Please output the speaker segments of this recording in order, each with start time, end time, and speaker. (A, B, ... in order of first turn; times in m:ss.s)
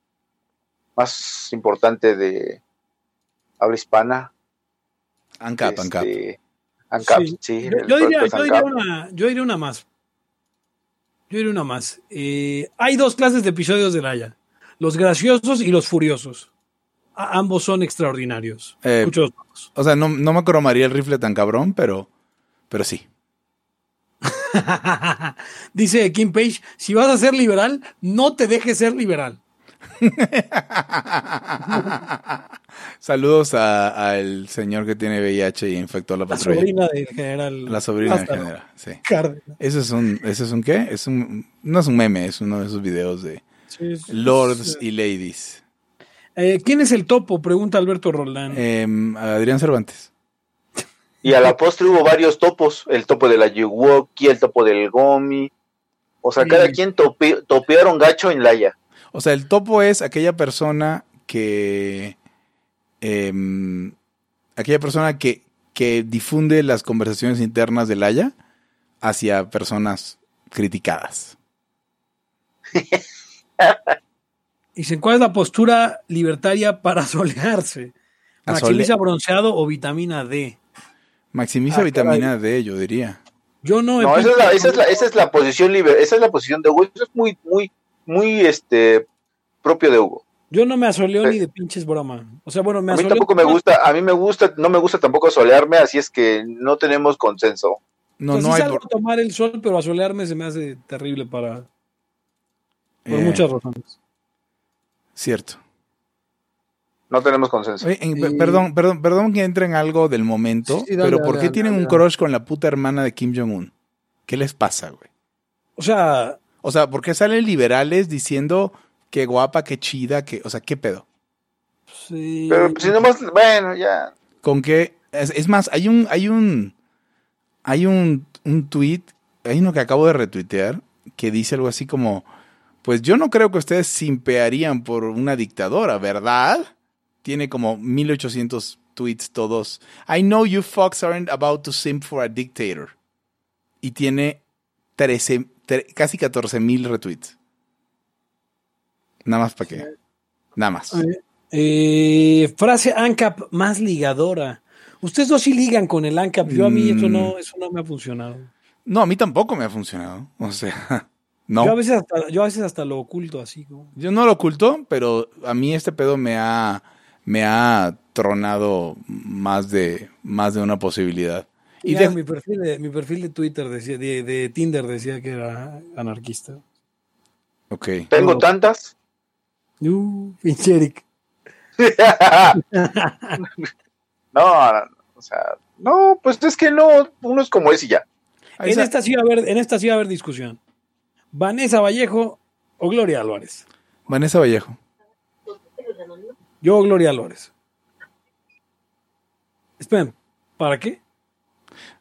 0:01.0-0:02.6 A
0:03.6-0:04.3 A
0:05.4-0:06.1 B
0:05.6-0:06.4 A
0:06.9-0:08.7 A
0:07.0-0:09.8 C
0:11.3-0:16.5 C
0:17.2-0:19.7 C
0:18.8-0:19.1 B
0:19.8-0:22.1 B
0:22.7-0:23.0 B
0:24.2-0:29.4 C
0:30.0-0:32.5 B
0:31.7-0:32.0 C
0:33.0-0:36.7 B
0:36.3-0:38.5 C
0:37.7-0:39.0 B
0:39.0-0:39.6 C
0:39.6-0:43.4 B
0:43.7-0:44.8 C
0:44.1-0:45.6 B
0:46.4-0:48.6 C
0:48.5-0:50.1 B
0:51.2-0:55.5 A
0:56.2-0:58.8 A
0:56.4-0:56.8 C
0:59.1-1:02.2 B
1:03.0-1:03.9 B
1:04.6-1:08.3 B
1:09.0-1:11.4 B
1:12.8-1:13.0 A
1:13.6-1:14.0 A
1:14.8-1:17.9 C
1:18.5-1:18.9 B
1:18.5-1:20.6 C
1:21.3-1:23.2 B
1:21.7-1:22.3 C
1:23.6-1:24.8 C
1:24.0-1:29.1 A
1:29.6-1:30.2 A
1:30.5-1:33.6 C
1:32.9-1:37.8 A
1:38.2-1:38.8 B
1:38.3-1:41.7 C
1:43.0-1:43.4 B
1:43.1-1:44.0 C
1:45.2-1:45.6 B
1:47.1-1:47.9 A
1:47.8-1:53.7 B
1:48.1-1:48.7 C
1:50.7-1:52.0 C
1:54.3-1:55.1 B
1:55.8-1:56.4 C
1:56.6-2:01.0 B
2:01.9-2:03.0 C
2:02.5-2:04.1 A
2:04.4-2:06.7 B
2:07.6-2:12.2 B
2:12.8-2:16.7 B
2:17.2-2:22.9 B
2:23.8-2:24.4 B
2:25.0-2:27.3 B
2:29.2-2:29.9 B
2:30.6-2:31.0 B
2:30.9-2:38.5 C
2:36.4-2:37.3 B
2:38.9-2:41.8 B
2:41.6-2:43.9 C
2:44.0-2:52.2 B
2:51.8-2:56.6 C
2:57.7-2:58.1 B
2:58.1-2:58.9 A
2:58.1-2:58.5 C
2:59.8-3:01.0 C
3:01.8-3:02.6 A
3:02.6-3:03.4 C
3:04.3-3:08.0 A
3:08.6-3:08.9 B
3:08.6-3:10.6 C
3:11.3-3:13.6 C
3:14.1-3:14.8 B
3:16.6-3:17.5 C
3:19.8-3:21.0 C